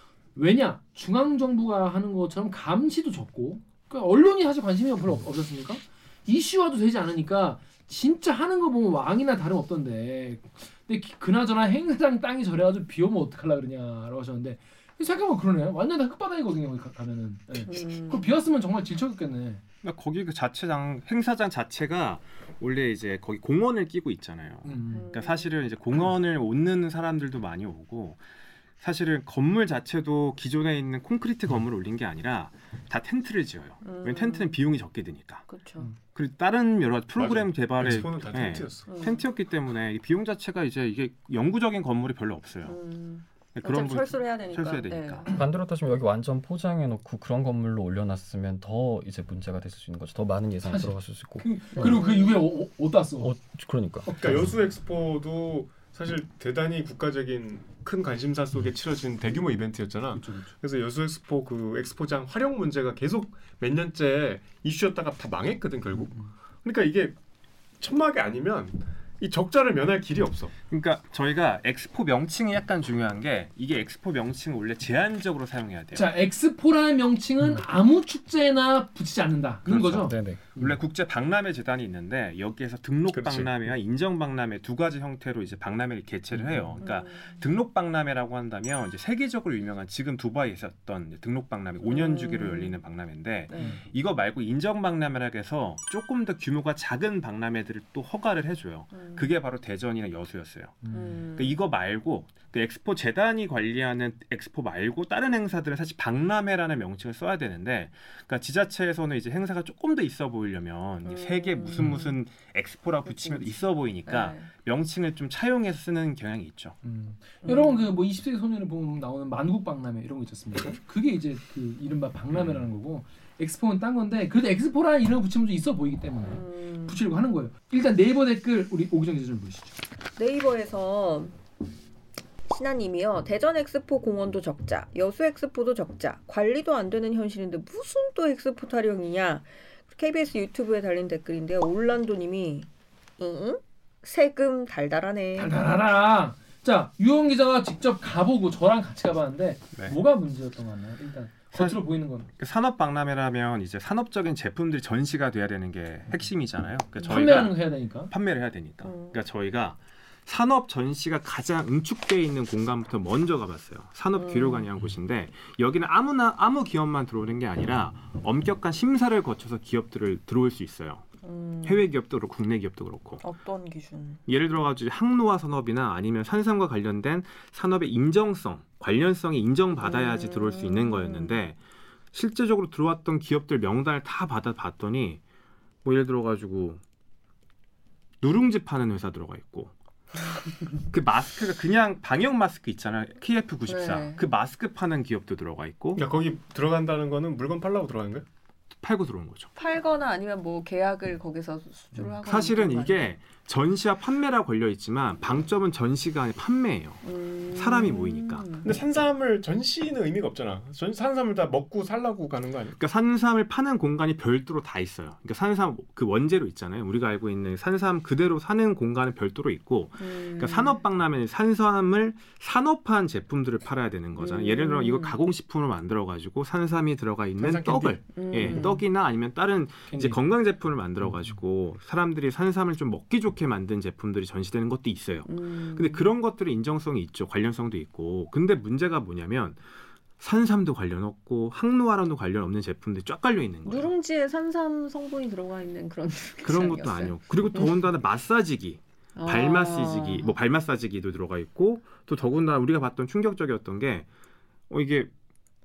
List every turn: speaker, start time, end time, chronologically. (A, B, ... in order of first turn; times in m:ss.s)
0:00.4-0:19.6 A
0:17.7-0:18.3 B
0:19.8-0:28.2 C
0:24.6-0:25.1 A
0:24.9-0:25.5 B
0:28.8-0:35.5 C
0:33.8-0:34.6 B
0:35.5-0:35.9 B
0:36.1-0:42.8 C
0:37.2-0:38.9 D
0:38.9-0:39.3 B
0:42.6-0:45.4 B
0:43.6-0:45.3 C
0:45.3-0:52.0 E
0:50.7-0:53.3 A
0:51.7-0:52.4 B
0:53.2-0:54.4 E
0:54.1-0:54.3 A
0:54.1-1:07.2 D
1:00.2-1:00.5 A
1:07.8-1:10.5 D
1:10.7-1:16.1 C
1:15.9-1:20.7 A
1:19.7-1:40.8 C
1:20.0-1:20.4 E
1:23.1-1:23.5 D
1:26.4-1:26.8 A
1:26.8-1:27.4 B
1:31.8-1:32.8 B
1:33.5-1:33.8 B
1:38.9-1:39.3 B
1:40.8-1:41.2 A
1:40.9-1:41.6 B
1:41.4-1:56.8 C
1:51.0-1:52.2 B
1:53.0-1:54.5 B
1:56.8-2:09.8 A
1:57.4-1:57.9 B
2:06.2-2:07.0 B
2:10.2-2:11.4 B
2:12.5-2:25.6 B
2:25.3-2:32.3 A
2:31.5-2:31.8 C
2:32.4-2:37.6 C
2:37.0-2:38.1 A
2:38.1-2:51.1 C
2:38.8-2:39.2 B
2:44.1-2:44.7 B
2:51.2-2:51.8 B
2:51.6-2:53.2 C
2:53.2-2:54.2 B
2:54.3-3:01.6 C
2:59.8-3:01.4 B
3:02.1-3:05.2 C
3:05.8-3:06.8 C
3:08.2-3:09.7 C
3:10.9-3:16.0 C
3:13.7-3:14.2 B
3:15.9-3:18.3 D
3:18.8-3:19.5 C
3:19.6-3:23.1 B
3:22.2-3:28.5 C
3:27.0-3:28.7 B
3:28.6-3:32.8 D
3:32.8-3:59.6 C
3:40.0-3:40.8 B
3:44.2-3:45.2 B
3:47.4-3:48.1 D
3:48.1-3:48.8 B
3:49.9-3:50.2 A
3:55.3-3:56.1 B
4:00.2-4:03.9 C
4:03.6-4:07.8 B
4:06.4-4:14.1 C
4:09.2-4:10.3 B
4:14.7-4:15.1 C